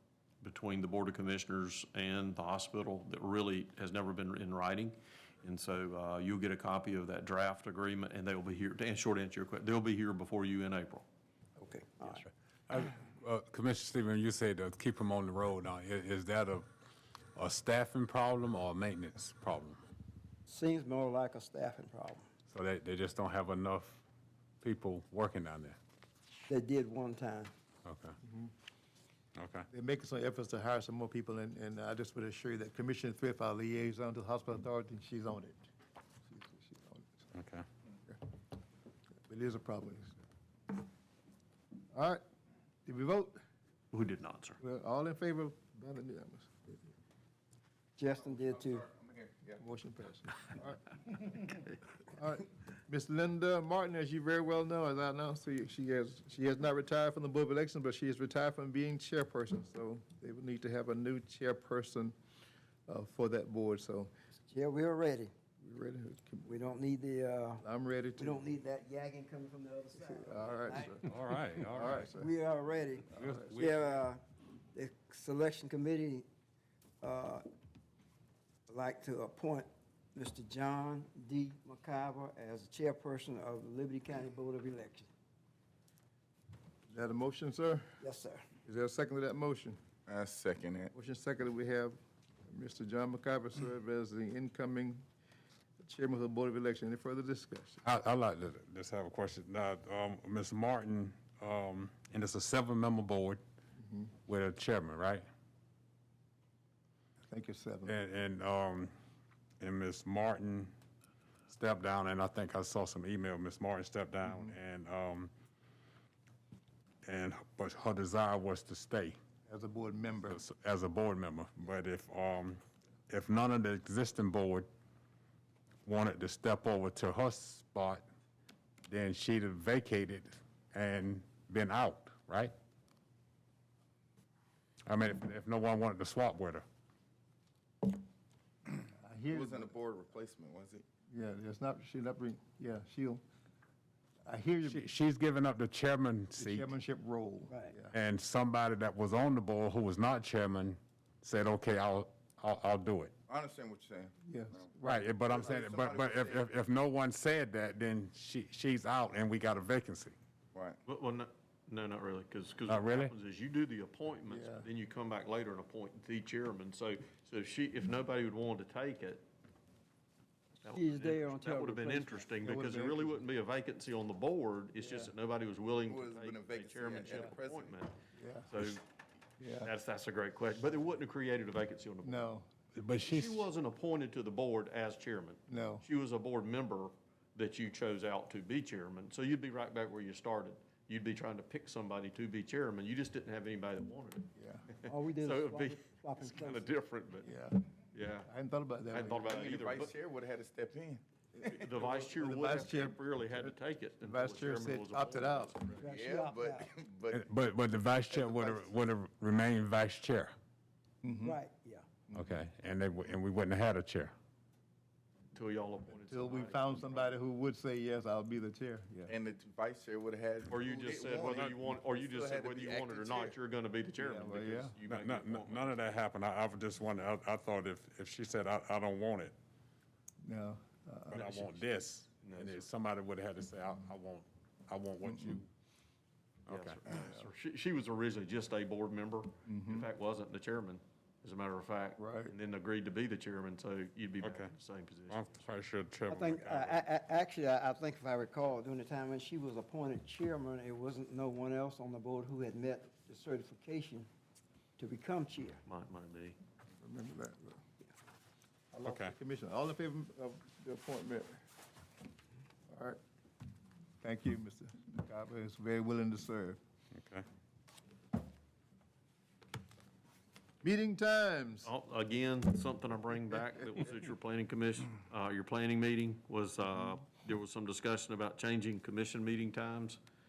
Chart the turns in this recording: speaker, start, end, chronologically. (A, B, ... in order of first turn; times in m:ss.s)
0:00.4-0:11.1 A
0:11.6-0:12.2 B
0:12.1-0:16.7 C
0:17.4-0:19.8 C
0:20.5-0:22.3 B
0:22.5-0:24.0 C
0:24.6-0:25.8 C
0:26.5-0:27.5 B
0:27.8-0:28.2 C
0:28.2-0:28.5 D
0:29.4-0:29.7 C
0:29.7-0:35.7 D
0:36.3-0:37.3 D
0:37.3-0:37.7 C
0:39.3-0:40.2 D
0:41.9-0:42.2 D
0:42.9-0:43.4 D
0:43.9-0:44.6 A
0:44.6-0:46.8 D
0:48.0-0:48.9 B
0:48.4-0:49.6 E
0:49.6-1:02.2 D
1:02.9-1:04.1 D
1:04.5-1:05.3 B
1:05.6-1:06.5 D
1:06.5-1:07.6 B
1:07.6-1:08.4 D
1:08.2-1:11.1 B
1:10.1-1:11.0 D
1:11.1-1:12.1 C
1:11.7-1:12.3 D
1:12.0-1:14.2 B
1:13.2-1:14.0 C
1:14.7-1:16.3 B
1:17.0-1:17.4 B
1:18.7-1:25.1 B
1:26.9-1:27.8 D
1:28.0-1:28.4 B
1:28.7-1:29.8 D
1:30.1-1:30.9 E
1:30.9-1:35.0 D
1:35.8-1:37.8 D
1:37.8-1:43.4 C
1:43.8-1:44.1 D
1:44.3-1:45.3 C
1:47.3-1:48.0 D
1:47.9-1:48.9 C
1:49.6-1:50.7 C
1:51.5-1:55.3 C
1:57.0-1:59.2 C
1:59.5-2:00.4 D
2:00.3-2:04.7 C
2:05.8-2:08.0 C
2:08.9-2:12.5 C
2:14.9-2:16.6 C
2:18.9-2:19.7 D
2:19.3-2:20.9 E
2:21.1-2:23.2 D
2:24.2-2:24.8 D
2:24.7-2:26.7 C
2:26.4-2:27.9 D
2:27.5-2:27.7 B
2:27.9-2:33.1 C
2:33.3-2:36.6 E
2:34.2-2:35.1 D
2:34.8-2:40.2 C
2:40.5-2:40.8 E
2:40.9-2:49.2 A
2:42.7-2:43.2 C
2:44.3-2:44.7 D
2:50.6-2:57.9 A
2:50.7-2:52.3 B
2:52.4-2:53.2 D
2:54.8-2:55.1 D
2:55.9-2:57.8 E
2:57.0-2:57.3 D
2:58.2-2:58.5 D
2:58.5-2:58.8 A
2:59.4-2:59.7 D
2:59.6-3:02.3 A
3:02.0-3:02.5 D
3:02.8-3:03.5 C
3:03.0-3:17.3 A
3:05.5-3:05.8 D
3:14.4-3:14.7 D
3:14.9-3:16.7 B
3:17.2-3:17.7 D
3:17.9-3:18.3 A
3:18.2-3:19.3 D
3:18.9-3:20.0 A
3:19.2-3:21.0 E
3:21.4-3:25.6 D
3:21.4-3:25.9 A
3:25.8-3:26.7 B
3:25.8-3:27.3 E
3:27.1-3:30.3 C
3:28.0-3:28.7 E
3:31.0-3:31.4 D
3:31.2-3:31.9 B
3:32.1-3:34.1 C
3:35.3-3:37.1 A
3:36.0-3:39.2 D
3:39.1-3:43.4 E
3:40.5-3:45.9 A
3:44.0-3:44.8 D
3:44.9-3:49.4 C
3:50.2-3:51.6 D
3:51.1-3:55.5 C
3:52.2-3:52.7 A
3:55.0-3:55.4 D
3:56.5-3:56.8 C
3:56.5-4:05.4 A
3:59.5-3:59.9 D
4:02.0-4:02.3 D
4:04.2-4:04.5 C
4:05.1-4:06.8 C
4:06.1-4:14.1 B
4:14.8-4:15.6 B
4:15.7-4:16.4 A
4:16.8-4:17.6 D
4:18.7-4:21.4 D
4:18.8-4:19.1 C
4:22.7-4:23.0 D
4:24.0-4:26.6 D
4:26.9-4:27.2 C
4:30.6-4:31.7 D
4:31.6-4:40.0 A